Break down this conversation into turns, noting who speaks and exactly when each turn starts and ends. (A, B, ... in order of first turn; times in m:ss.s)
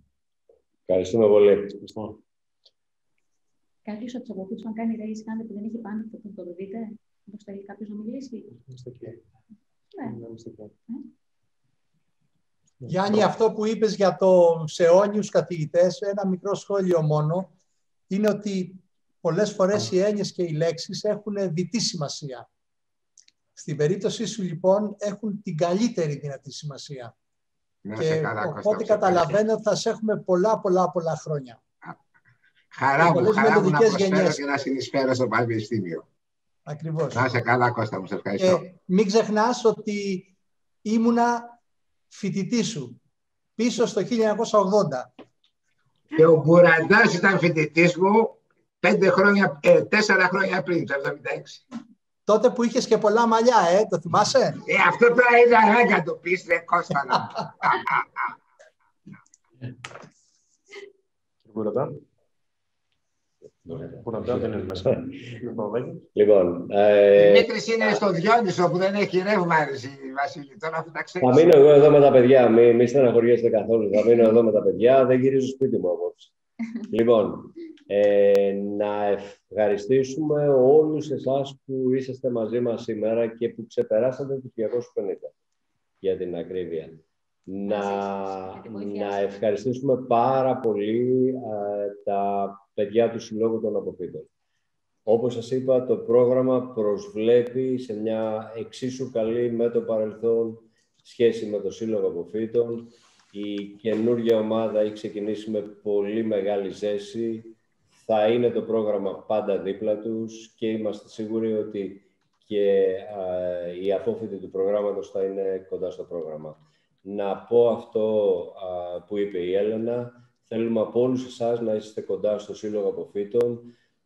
0:00.9-0:01.9 A
0:03.8-0:08.5 B
0:08.6-0:09.2 C
0:10.0-0:10.7 C
0:12.8-0:17.5 D
0:18.1-0:22.5 D
0:23.6-0:27.1 D
0:27.8-0:29.4 E
0:28.0-0:31.6 D
0:32.7-0:36.1 E
0:33.0-0:34.4 D
0:36.6-0:37.3 D
0:37.1-0:38.6 E
0:38.4-0:40.3 D
0:40.8-0:41.6 D
0:42.1-0:43.0 D
0:43.6-0:45.1 D
0:46.2-0:51.6 E
0:52.3-0:54.6 D
0:54.7-0:58.0 E
1:01.5-1:02.0 C
1:03.6-1:04.7 A
1:03.7-1:06.0 C
1:06.1-1:07.5 A
1:07.1-1:11.5 E
1:11.2-1:16.3 A
1:16.9-1:25.3 A
1:26.0-1:34.3 A
1:27.6-1:29.2 B
1:35.1-2:03.7 A